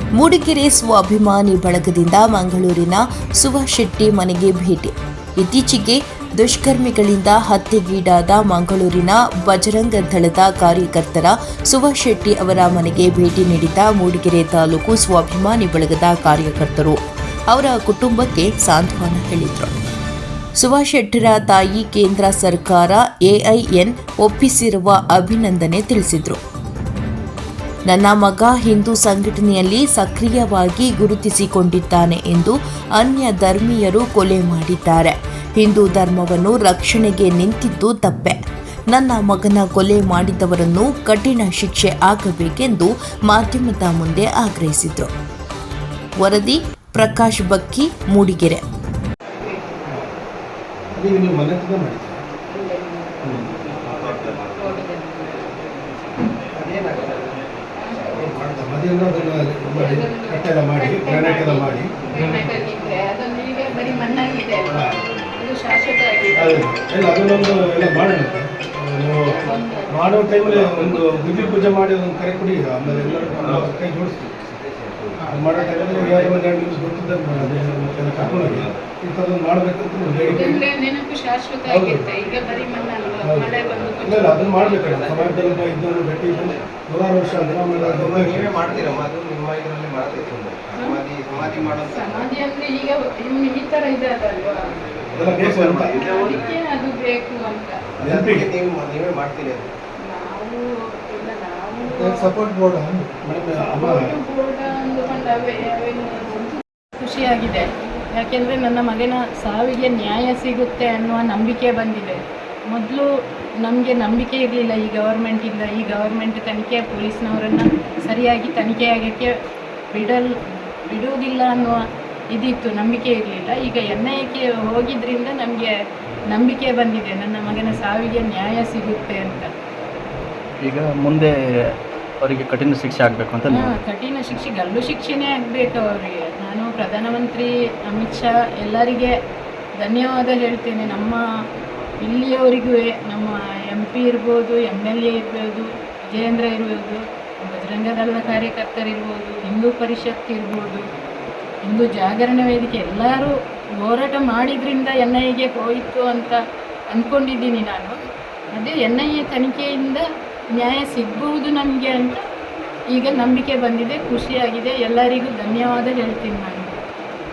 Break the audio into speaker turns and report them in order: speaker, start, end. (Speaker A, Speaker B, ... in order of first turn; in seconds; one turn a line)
Speaker A: 0.2-17.0
Speaker A: 17.5-19.7
Speaker A: 20.6-26.4
Speaker A: 27.9-38.4
Speaker A: 38.9-45.1
Speaker A: 46.2-48.6
Speaker B: 49.4-49.8
Speaker C: 50.9-52.2
Speaker B: 52.5-53.4
Speaker C: 53.2-53.5
Speaker D: 54.0-54.5
Speaker B: 54.5-55.5
Speaker D: 56.5-57.3
Speaker B: 57.8-58.1
Speaker D: 58.1-58.6
Speaker C: 58.2-61.9
Speaker B: 59.7-66.7
Speaker C: 64.7-65.0
Speaker C: 66.3-69.4
Speaker B: 67.5-68.3
Speaker B: 69.3-70.2
Speaker C: 69.9-74.3
Speaker D: 73.4-73.7
Speaker D: 74.4-75.2
Speaker C: 75.2-80.6
Speaker D: 76.0-76.4
Speaker D: 78.1-78.7
Speaker B: 80.3-84.8
Speaker C: 81.7-82.1
Speaker C: 83.2-88.9
Speaker D: 87.7-92.3
Speaker B: 90.8-91.0
Speaker B: 91.8-94.7
Speaker C: 95.2-96.2
Speaker D: 95.2-96.5
Speaker B: 95.9-97.9
Speaker D: 98.0-99.7
Speaker C: 98.0-98.5
Speaker B: 100.1-102.6
Speaker C: 102.2-104.1
Speaker B: 103.5-113.1
Speaker B: 113.7-119.3
Speaker B: 119.9-120.3
Speaker B: 120.9-125.7
Speaker B: 126.3-129.5
Speaker E: 130.6-131.4
Speaker E: 132.2-133.8
Speaker B: 133.5-139.1
Speaker B: 139.8-141.2
Speaker B: 142.0-150.8
Speaker B: 151.7-156.4
Speaker B: 156.9-158.0
Speaker B: 158.6-162.2
Speaker B: 162.9-166.7